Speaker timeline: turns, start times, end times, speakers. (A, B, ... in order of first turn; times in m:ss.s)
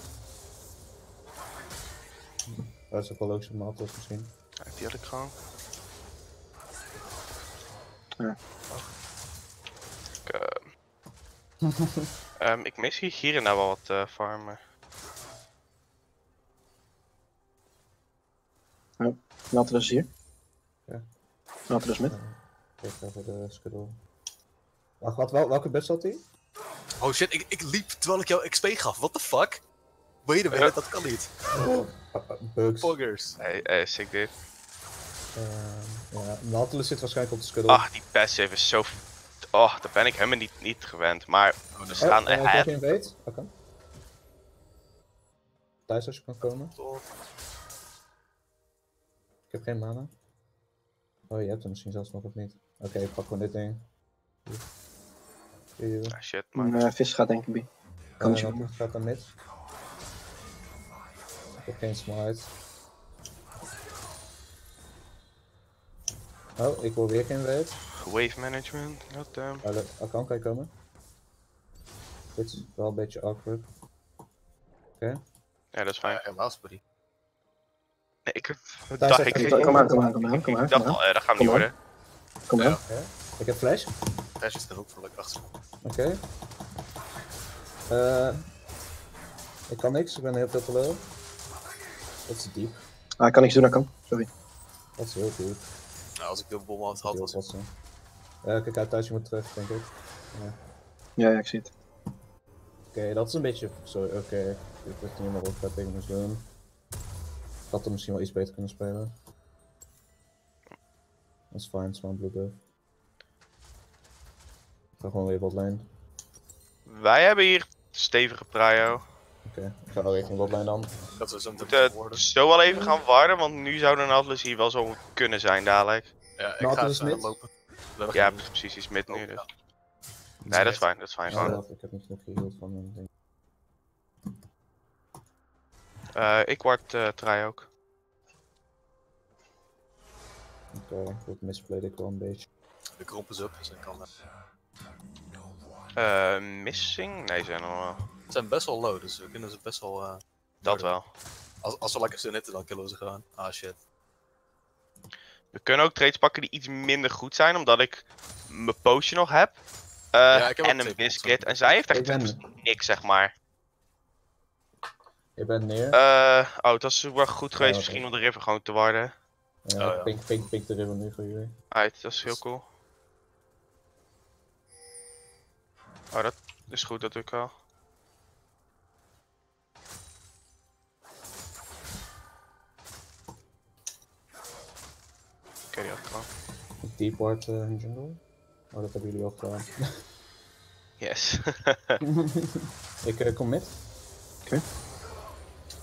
0:02.5-0:04.3 A
0:04.6-0:05.3 B
0:10.2-0:10.6 B
0:11.6-0:12.1 A
0:12.4-0:14.6 B
0:19.0-0:20.1 C
0:21.7-0:22.1 C
0:22.0-0:24.0 A
0:25.0-0:26.2 A
0:27.0-0:29.6 D
0:30.2-0:31.3 D
0:31.5-0:33.0 A
0:32.8-0:33.4 D
0:33.4-0:34.3 B
0:35.3-0:37.9 A
0:37.7-0:39.0 B
0:39.5-0:42.7 B
0:41.8-0:42.1 D
0:42.0-0:43.5 A
0:45.9-0:46.7 A
0:46.4-0:47.0 D
0:49.5-0:50.1 A
0:51.3-0:53.8 A
0:55.8-0:56.2 A
0:56.1-0:56.9 B
0:56.6-0:57.7 C
0:58.2-0:59.3 A
0:58.2-0:58.7 C
1:01.6-1:02.5 A
1:06.6-1:07.8 A
1:08.0-1:09.6 B
1:09.6-1:10.7 A
1:12.3-1:13.7 A
1:15.7-1:16.2 B
1:16.0-1:16.8 D
1:18.3-1:21.7 B
1:19.0-1:20.1 A
1:19.3-1:21.7 C
1:22.5-1:22.8 C
1:22.6-1:22.8 D
1:22.8-1:23.9 A
1:24.4-1:25.4 D
1:25.8-1:26.2 A
1:27.9-1:28.4 A
1:29.7-1:31.1 A
1:32.3-1:32.8 A
1:33.2-1:34.3 C
1:35.0-1:35.7 A
1:36.2-1:37.4 D
1:36.9-1:37.7 A
1:38.4-1:40.6 A
1:41.2-1:41.7 C
1:42.9-1:46.5 A
1:47.7-1:49.1 A
1:51.5-1:52.6 A
1:55.0-1:55.9 A
1:56.8-1:59.0 B
1:59.4-2:00.9 A
2:01.2-2:02.2 D
2:01.7-2:06.1 B
2:06.4-2:08.4 D
2:06.6-2:07.4 A
2:08.1-2:09.4 B
2:09.1-2:09.4 D
2:10.4-2:13.1 A
2:10.5-2:11.6 B
2:10.6-2:11.6 D
2:16.1-2:17.7 B
2:20.7-2:22.5 A
2:23.0-2:24.1 D
2:25.9-2:28.0 B
2:28.3-2:30.9 D
2:30.6-2:31.1 B
2:31.6-2:33.8 D
2:35.5-2:39.6 B
2:40.1-2:43.3 B
2:40.3-2:41.9 D
2:41.9-2:42.4 A
2:45.4-2:46.0 A
2:45.9-2:49.1 B
2:47.5-2:48.0 A
2:49.6-2:51.5 A
2:49.8-2:50.2 D
2:51.7-2:52.6 B
2:56.1-2:57.5 B
3:05.7-3:06.3 B
3:06.8-3:08.2 A
3:08.7-3:09.7 A
3:11.0-3:12.0 B
3:12.1-3:13.8 A